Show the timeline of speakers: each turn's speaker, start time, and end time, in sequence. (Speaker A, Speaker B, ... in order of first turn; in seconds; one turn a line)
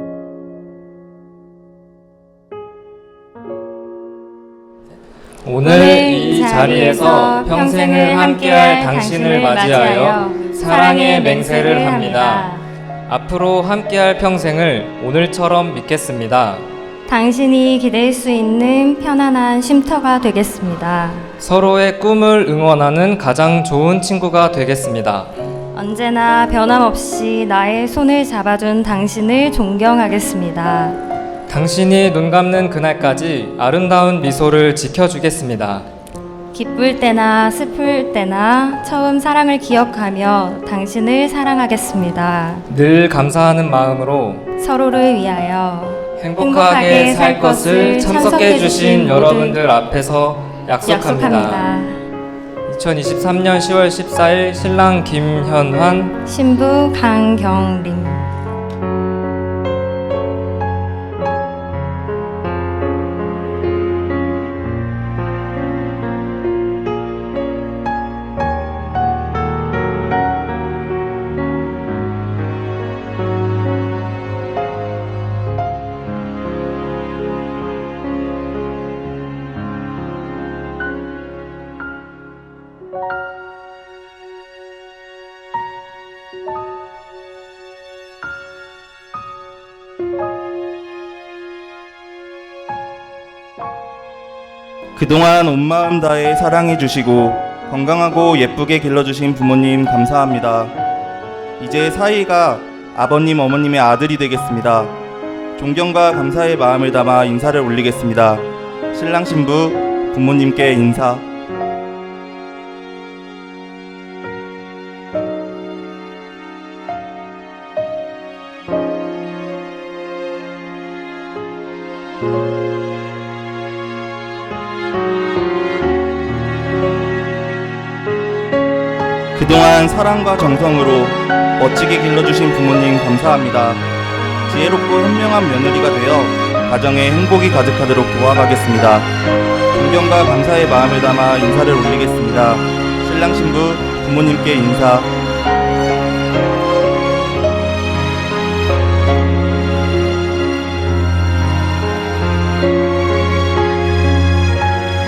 Speaker A: 5.4-12.5
Speaker B: 5.6-12.6
Speaker A: 13.1-16.6
Speaker B: 17.1-21.3
Speaker A: 21.4-25.3
Speaker B: 25.7-31.0
Speaker A: 31.5-35.9
Speaker B: 36.5-42.6
Speaker A: 42.7-44.5
Speaker B: 44.6-49.6
Speaker A: 46.2-51.6
Speaker B: 50.9-52.0
Speaker A: 52.7-56.1
Speaker B: 56.2-58.3
Speaker C: 95.0-100.7
Speaker C: 101.6-104.9
Speaker C: 105.6-111.2
Speaker C: 129.4-133.8
Speaker C: 134.5-139.1
Speaker C: 139.7-145.1